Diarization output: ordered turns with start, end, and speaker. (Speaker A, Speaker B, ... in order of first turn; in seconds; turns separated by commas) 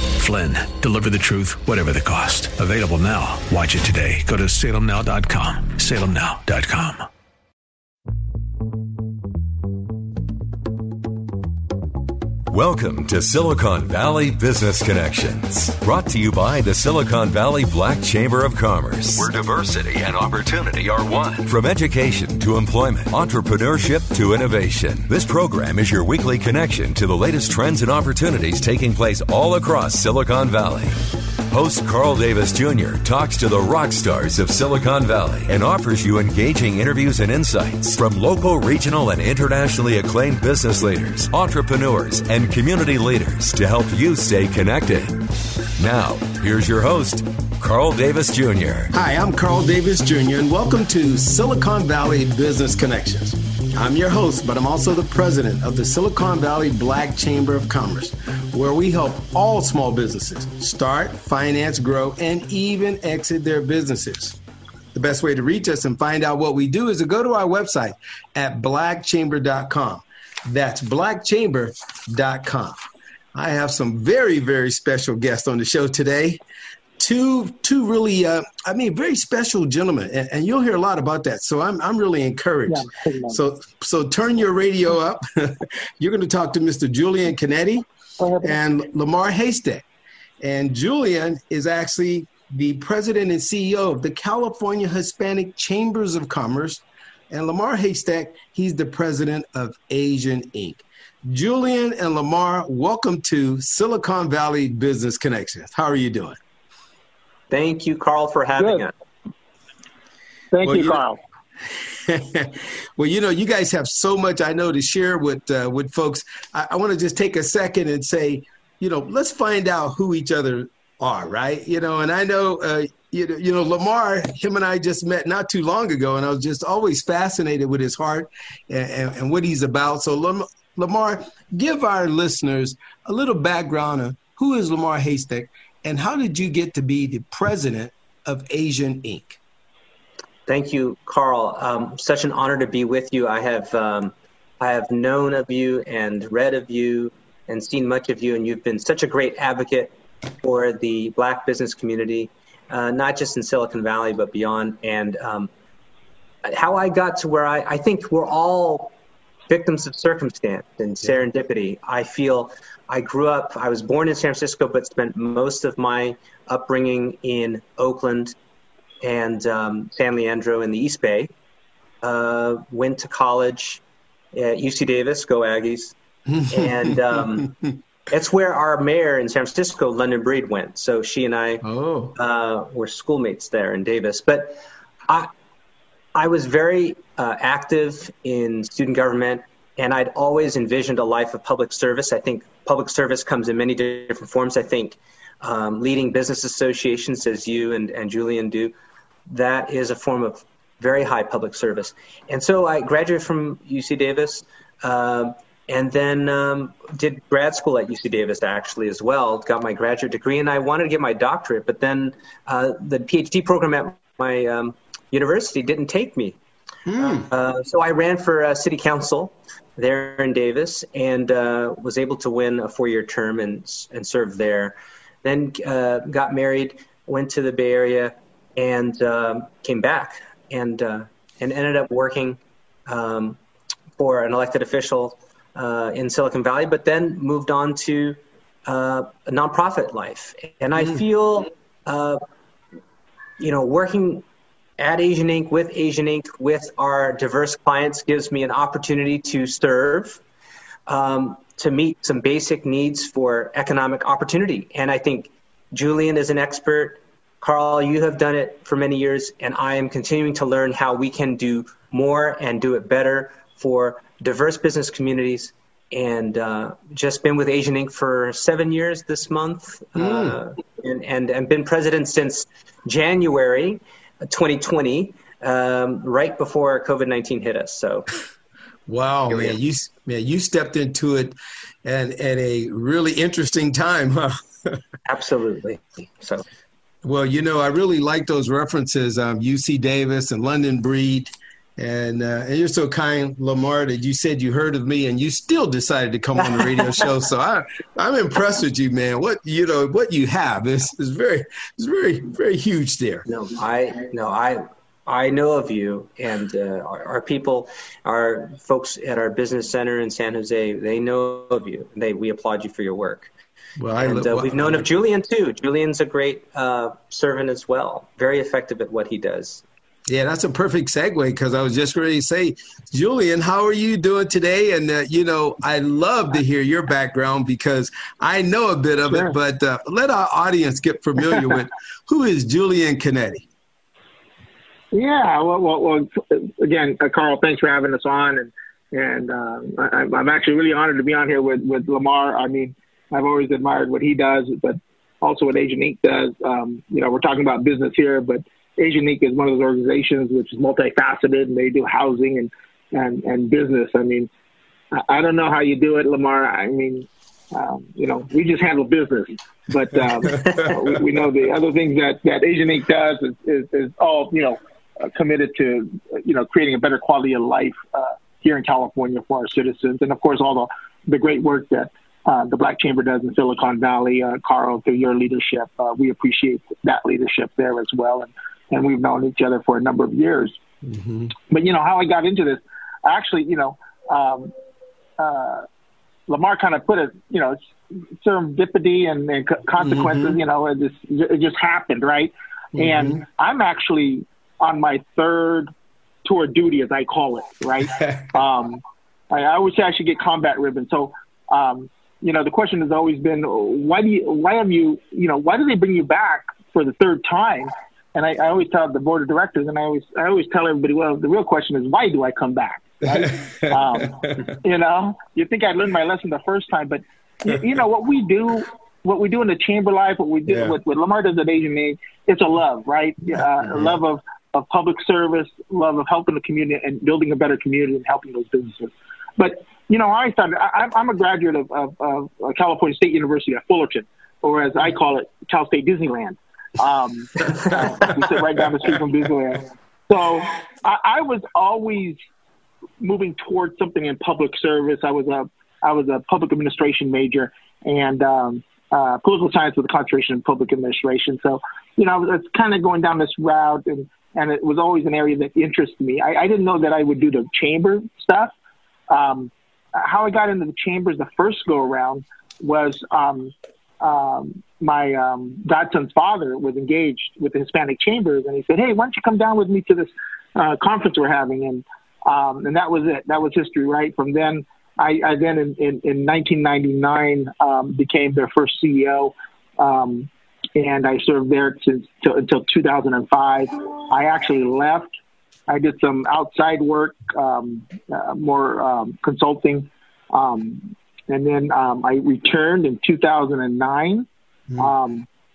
Speaker A: 0.2-7.1, Speaker B: 12.5-31.0, Speaker B: 31.5-45.2, Speaker B: 45.8-48.9, Speaker C: 48.9-64.4, Speaker C: 64.9-72.8, Speaker C: 73.3-76.4, Speaker C: 77.0-87.9, Speaker D: 82.7-83.4, Speaker D: 88.2-88.6, Speaker C: 88.4-89.8, Speaker C: 90.4-106.4, Speaker E: 107.5-108.9, Speaker D: 108.6-108.9, Speaker D: 110.5-111.2, Speaker C: 110.6-111.0, Speaker C: 112.1-139.4, Speaker E: 140.5-155.5, Speaker E: 156.4-158.9, Speaker E: 159.5-168.3, Speaker E: 169.0-171.3, Speaker E: 172.0-173.8, Speaker E: 174.3-175.9, Speaker C: 176.3-177.7, Speaker E: 176.5-177.5, Speaker E: 178.1-181.6, Speaker C: 181.6-182.2, Speaker E: 182.2-185.3, Speaker E: 186.2-198.7, Speaker E: 199.3-216.4, Speaker C: 216.9-217.3, Speaker E: 217.0-233.4, Speaker E: 234.0-242.2, Speaker E: 243.4-244.2, Speaker E: 244.8-250.2, Speaker E: 250.9-278.1, Speaker C: 270.0-270.4, Speaker C: 278.9-284.8, Speaker E: 279.3-279.6, Speaker E: 285.1-286.4, Speaker C: 287.0-303.3, Speaker E: 296.5-297.0, Speaker E: 303.3-313.3, Speaker C: 313.8-314.9, Speaker E: 314.0-319.6, Speaker C: 320.1-333.5, Speaker D: 329.1-329.4, Speaker D: 334.9-354.3, Speaker D: 354.9-380.6, Speaker C: 380.8-381.4, Speaker D: 381.5-384.5, Speaker D: 385.2-385.7, Speaker D: 386.3-387.6, Speaker D: 388.2-395.7, Speaker C: 389.8-390.4, Speaker C: 392.8-393.2, Speaker D: 396.2-442.2, Speaker C: 413.1-414.3, Speaker C: 420.5-420.8, Speaker C: 423.6-424.0, Speaker D: 443.0-458.5, Speaker D: 459.1-485.1, Speaker D: 485.7-495.3